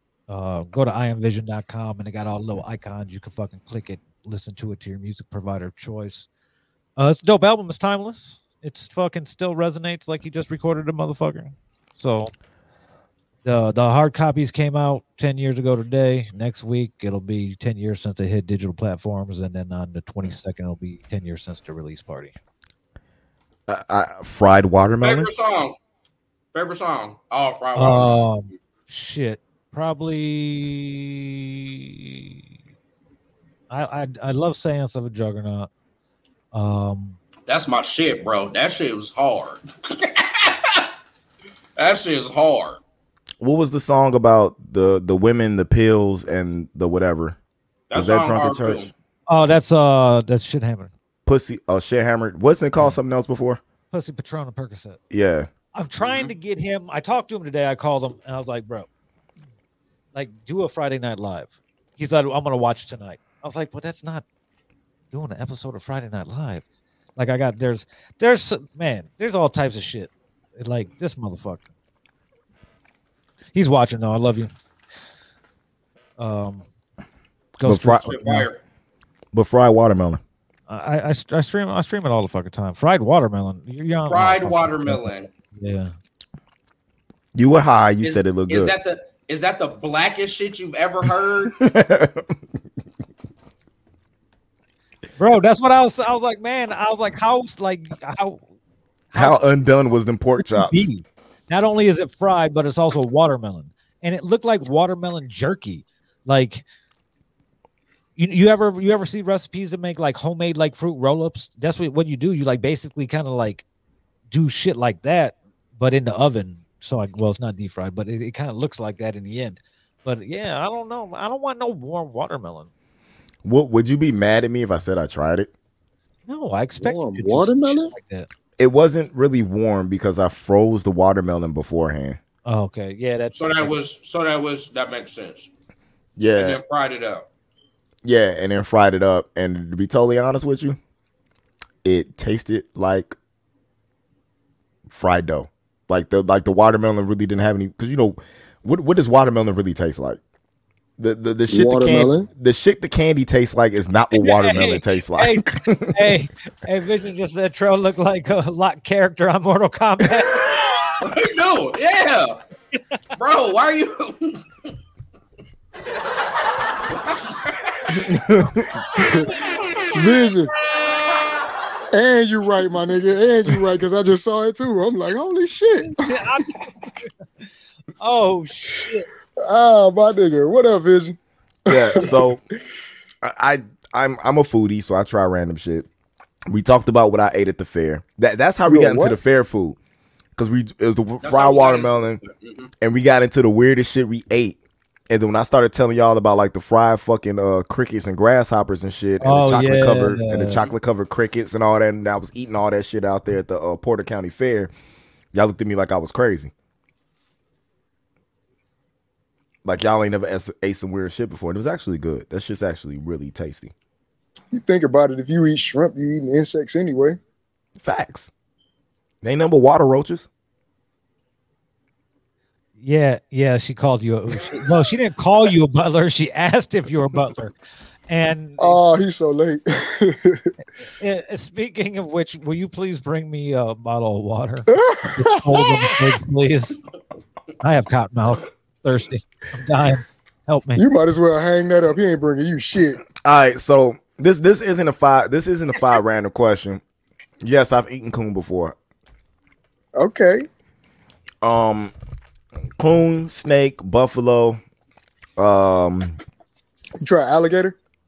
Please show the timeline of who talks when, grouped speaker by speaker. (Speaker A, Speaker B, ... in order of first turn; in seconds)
Speaker A: 0.3-6.3, 7.0-12.3, 13.4-22.3, 27.8-32.4, 33.7-35.7, 36.5-37.2, 49.3-50.9, 53.9-55.0, 55.7-58.9, 60.1-64.2, 65.1-66.6, 67.2-71.7, 73.5-74.5, 76.2-76.7, 77.6-78.5, 80.7-85.9, 95.2-98.4, 99.1-99.4, 100.4-106.6, 108.2-113.6, 114.3-122.7, 126.3-128.3, 132.4-133.8, 154.1-160.5, 175.9-177.1, 178.0-179.1, 199.2-200.6, 222.8-227.5, 228.1-228.8, 230.8-236.8, 237.6-240.8
Speaker B: 23.7-25.3, 43.4-47.4, 47.9-48.9, 51.2-53.6, 55.1-55.5, 77.6-78.1, 79.3-80.2, 87.3-88.7, 91.5-92.3, 99.1-100.9, 123.4-125.5, 128.6-132.2, 136.2-136.6, 138.0-140.8, 141.8-143.1, 144.9-150.2, 151.0-156.2, 167.9-168.8, 181.7-182.4, 183.2-185.9, 186.5-189.8, 190.3-192.2, 192.8-194.6, 195.1-204.7, 205.3-206.5, 209.6-213.7, 217.8-218.3, 219.2-220.3, 243.2-246.8, 247.4-248.8, 251.4-251.9, 252.8-254.6, 255.4-256.2
Speaker C: 25.0-25.8, 26.5-28.2, 37.5-40.9, 41.8-42.8, 47.9-48.9, 56.0-56.3, 78.0-78.6, 84.1-85.3, 88.0-91.5, 133.3-135.5, 136.3-137.3, 161.0-162.4, 163.2-164.4, 166.9-168.1, 169.1-171.2, 191.2-192.7
Speaker D: 126.8-127.9, 151.5-152.3, 168.9-169.3, 169.9-170.5, 171.9-176.7, 179.4-181.2, 181.7-182.2, 188.7-189.2, 214.5-217.2, 228.6-230.5, 234.7-235.9, 240.8-243.0, 249.9-250.4, 257.0-257.7